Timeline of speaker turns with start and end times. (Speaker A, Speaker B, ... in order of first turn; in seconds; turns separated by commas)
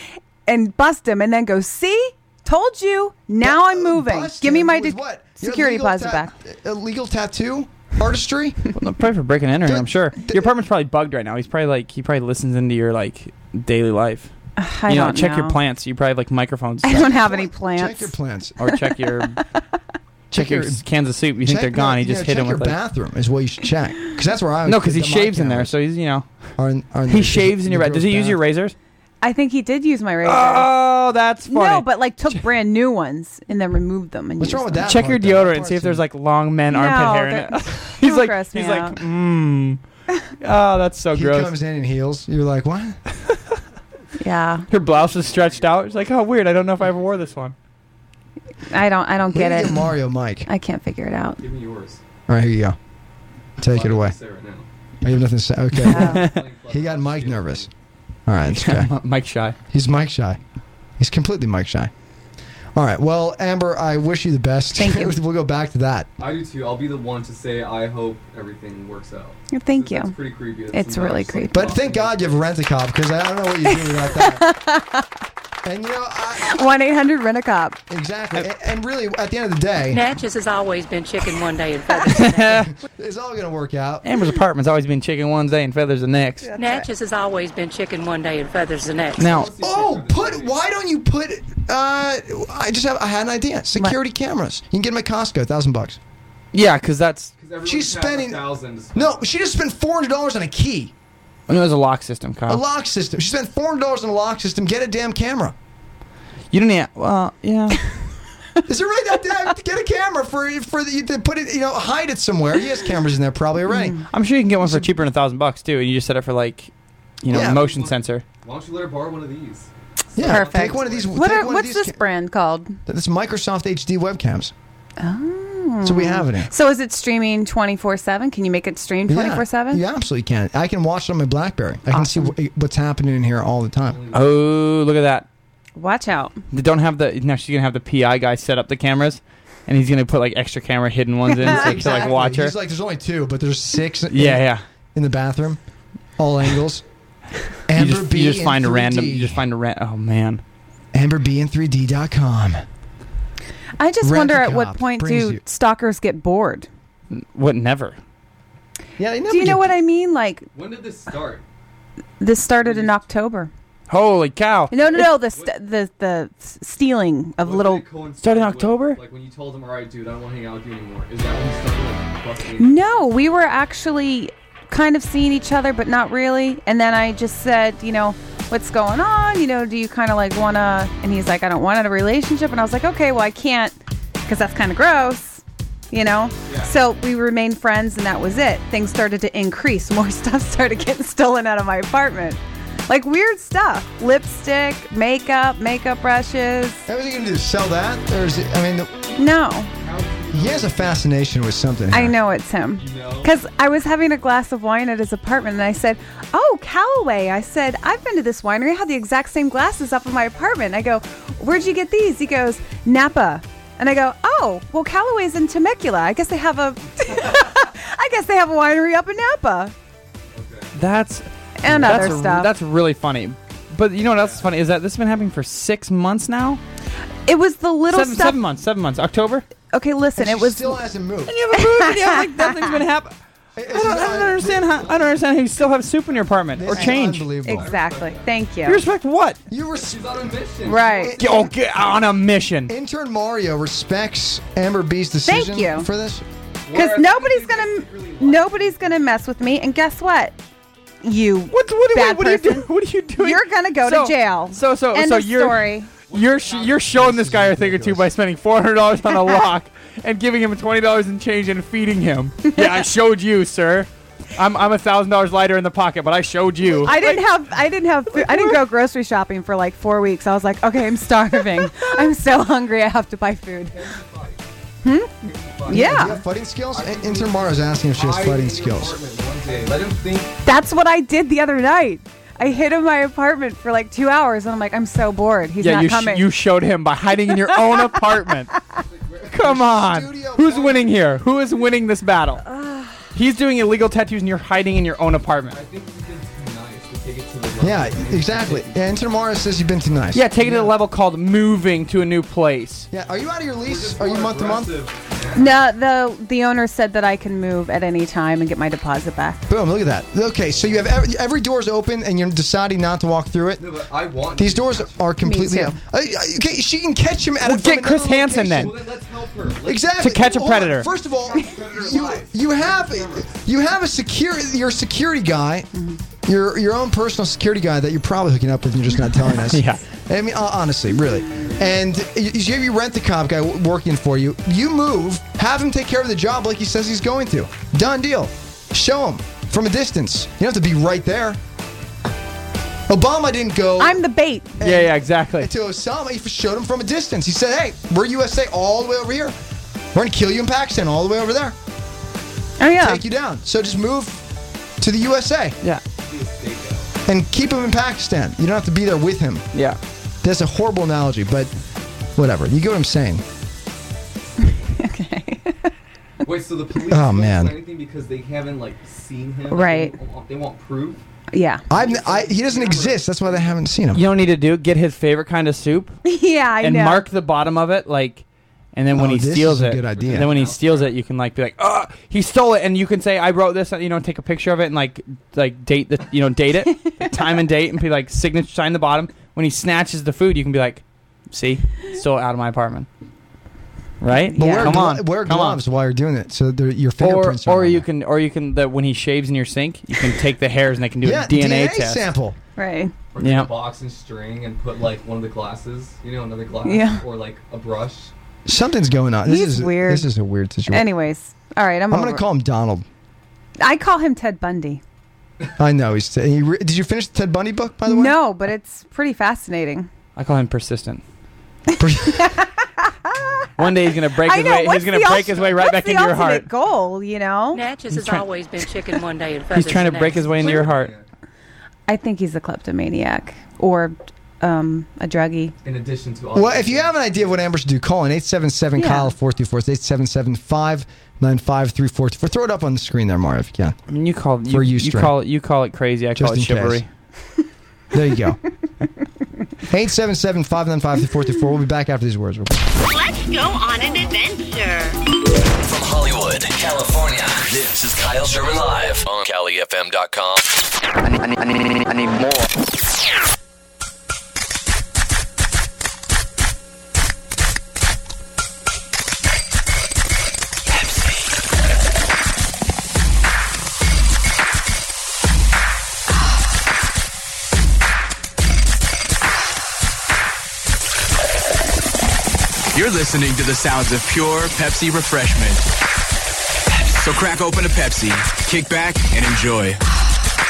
Speaker A: 0.5-6.3, Speaker B: 3.4-8.6, Speaker C: 8.8-14.3, Speaker B: 9.7-10.5, Speaker A: 14.6-15.6, Speaker C: 14.9-17.1, Speaker A: 16.9-18.1, Speaker B: 16.9-18.6, Speaker C: 18.6-19.4, Speaker B: 20.3-20.8, Speaker C: 20.3-22.8, Speaker B: 21.4-25.7, Speaker C: 24.7-26.3, Speaker B: 26.6-28.4, Speaker C: 27.1-28.8, Speaker A: 29.2-30.7, Speaker C: 30.2-32.4, Speaker A: 31.5-34.9, Speaker B: 34.4-36.0, Speaker C: 34.9-39.8, Speaker A: 36.7-39.0, Speaker C: 40.4-41.5, Speaker B: 41.1-43.0, Speaker A: 44.2-44.7, Speaker C: 44.7-47.5, Speaker D: 44.7-47.5, Speaker A: 48.7-49.9, Speaker B: 49.3-50.5, Speaker A: 50.5-51.4, Speaker D: 51.4-52.0, Speaker B: 52.3-52.8, Speaker B: 53.6-54.1, Speaker D: 53.6-54.7, Speaker B: 55.0-57.7, Speaker C: 55.8-56.4, Speaker A: 55.9-56.3, Speaker D: 56.1-57.7, Speaker B: 58.3-58.9, Speaker C: 58.5-59.6, Speaker B: 59.7-60.4, Speaker B: 61.0-61.9, Speaker B: 62.8-66.1, Speaker A: 64.8-65.2, Speaker D: 66.2-72.4, Speaker A: 69.5-70.1, Speaker A: 70.7-71.7, Speaker B: 71.5-74.4, Speaker A: 73.7-75.1, Speaker B: 75.6-76.6, Speaker A: 76.4-77.8, Speaker B: 77.9-80.1, Speaker E: 79.9-82.7, Speaker C: 82.1-82.7, Speaker B: 82.9-84.1, Speaker C: 84.0-86.5, Speaker A: 86.5-86.9, Speaker E: 86.6-89.3, Speaker C: 89.2-89.5, Speaker D: 89.2-90.6, Speaker B: 89.6-96.0, Speaker C: 96.5-97.3, Speaker D: 97.4-99.3, Speaker B: 97.7-100.9, Speaker C: 101.5-102.6, Speaker B: 102.5-105.5, Speaker C: 106.5-107.8, Speaker B: 108.7-114.0, Speaker A: 113.7-114.0, Speaker C: 114.1-116.7, Speaker B: 114.6-114.9, Speaker C: 117.2-118.2, Speaker B: 117.3-117.6, Speaker D: 117.3-121.2, Speaker B: 120.2-122.0, Speaker A: 120.2-122.8, Speaker B: 122.9-124.5, Speaker A: 125.0-129.8, Speaker B: 125.8-126.5, Speaker B: 129.1-134.0, Speaker A: 131.9-132.3, Speaker D: 133.9-134.4, Speaker C: 134.1-135.3, Speaker A: 135.8-136.4, Speaker C: 136.5-142.5, Speaker A: 141.3-142.1, Speaker B: 141.4-145.6, Speaker C: 144.1-144.6, Speaker B: 146.2-146.8, Speaker B: 147.7-149.4, Speaker C: 147.8-150.4, Speaker B: 150.9-152.6, Speaker A: 153.8-156.7, Speaker B: 154.0-155.4, Speaker C: 157.1-158.0, Speaker B: 159.0-159.7, Speaker A: 159.3-160.5, Speaker D: 160.5-161.4, Speaker A: 162.2-163.5, Speaker D: 162.6-163.1, Speaker C: 163.9-164.8, Speaker A: 164.7-167.8, Speaker D: 164.8-165.6, Speaker D: 167.4-173.2, Speaker C: 168.2-169.0, Speaker A: 172.6-196.8, Speaker D: 186.5-186.7, Speaker B: 196.9-198.9, Speaker A: 199.2-199.7, Speaker D: 199.8-201.1, Speaker B: 200.3-202.2, Speaker A: 201.9-219.7, Speaker D: 202.8-203.3, Speaker D: 220.3-220.8, Speaker C: 220.8-226.6, Speaker A: 221.6-222.5, Speaker D: 224.0-224.5, Speaker A: 227.3-228.4, Speaker C: 227.9-229.4, Speaker A: 229.7-230.8, Speaker B: 230.2-231.3, Speaker C: 231.3-233.1, Speaker A: 231.6-232.8, Speaker B: 233.6-234.9, Speaker C: 233.7-237.3, Speaker D: 234.7-235.2, Speaker D: 236.1-236.4, Speaker B: 236.6-237.7, Speaker A: 237.4-238.8, Speaker D: 237.5-238.4, Speaker C: 238.7-239.4, Speaker B: 239.5-241.5, Speaker D: 239.8-241.3, Speaker A: 240.7-241.2, Speaker C: 241.2-242.7, Speaker B: 242.7-246.2, Speaker A: 245.3-245.9, Speaker D: 246.7-249.2, Speaker A: 246.7-250.4, Speaker A: 251.0-252.7, Speaker C: 251.5-267.3, Speaker A: 253.2-255.9, Speaker D: 256.1-257.0, Speaker B: 256.9-258.1, Speaker B: 266.6-266.9, Speaker A: 266.8-273.8, Speaker C: 268.2-268.6, Speaker D: 273.7-274.4, Speaker A: 274.8-275.1, Speaker D: 275.2-276.1, Speaker A: 275.7-276.2, Speaker B: 275.7-279.0, Speaker D: 276.7-280.3, Speaker A: 280.4-286.3, Speaker C: 285.6-288.5, Speaker D: 288.8-289.8, Speaker C: 289.3-292.4, Speaker B: 289.4-290.9, Speaker A: 292.5-293.1, Speaker C: 293.1-295.6, Speaker D: 295.5-299.0, Speaker B: 297.6-300.6, Speaker C: 300.1-302.9, Speaker B: 302.9-304.7, Speaker D: 303.6-305.6, Speaker A: 305.4-309.4, Speaker B: 309.5-313.6, Speaker D: 313.6-315.1, Speaker B: 314.4-318.8, Speaker A: 315.2-315.8, Speaker C: 317.4-318.7, Speaker D: 318.6-320.0, Speaker B: 319.6-325.7, Speaker C: 320.0-320.9, Speaker D: 321.0-323.4, Speaker A: 325.7-326.0, Speaker B: 326.3-341.4, Speaker C: 329.5-329.8, Speaker B: 342.9-344.0, Speaker A: 343.8-344.6, Speaker B: 344.6-349.3, Speaker C: 344.6-345.5, Speaker B: 349.9-351.6, Speaker A: 352.6-353.0, Speaker B: 352.8-354.2, Speaker B: 354.8-355.6, Speaker D: 356.0-356.9, Speaker B: 357.1-359.5, Speaker B: 360.2-361.5, Speaker B: 362.2-363.2, Speaker A: 364.4-365.7, Speaker D: 366.2-371.0, Speaker B: 366.9-367.6, Speaker A: 369.5-369.9, Speaker A: 371.3-371.7, Speaker B: 371.7-374.0, Speaker D: 371.7-373.6, Speaker C: 373.9-376.0, Speaker A: 376.1-377.1, Speaker C: 376.6-392.9, Speaker B: 378.9-380.3, Speaker D: 379.9-380.9, Speaker C: 394.0-395.6, Speaker B: 394.4-397.9, Speaker A: 394.4-394.7, Speaker C: 397.0-402.1, Speaker B: 401.0-402.4, Speaker A: 402.6-402.9, Speaker D: 403.1-408.1, Speaker C: 403.2-403.5, Speaker A: 406.6-407.0, Speaker B: 408.5-410.9, Speaker A: 409.3-410.1, Speaker A: 410.7-412.2, Speaker B: 411.9-412.9, Speaker A: 413.6-414.8, Speaker B: 415.6-418.1, Speaker A: 417.9-419.9, Speaker C: 420.2-421.0, Speaker B: 421.8-422.3, Speaker A: 422.1-422.9, Speaker C: 423.6-426.5, Speaker A: 424.2-427.6, Speaker E: 427.5-430.4, Speaker C: 427.9-428.3, Speaker C: 429.5-430.9, Speaker D: 430.2-431.1, Speaker A: 431.9-435.5, Speaker D: 435.6-437.3, Speaker B: 436.3-443.8, Speaker A: 438.8-439.1, Speaker C: 443.9-446.9, Speaker B: 444.5-445.1, Speaker B: 446.2-446.8, Speaker B: 447.9-448.4, Speaker B: 449.7-452.6, Speaker F: 452.9-455.0, Speaker G: 455.6-460.6, Speaker H: 482.7-485.7, Speaker H: 486.7-489.8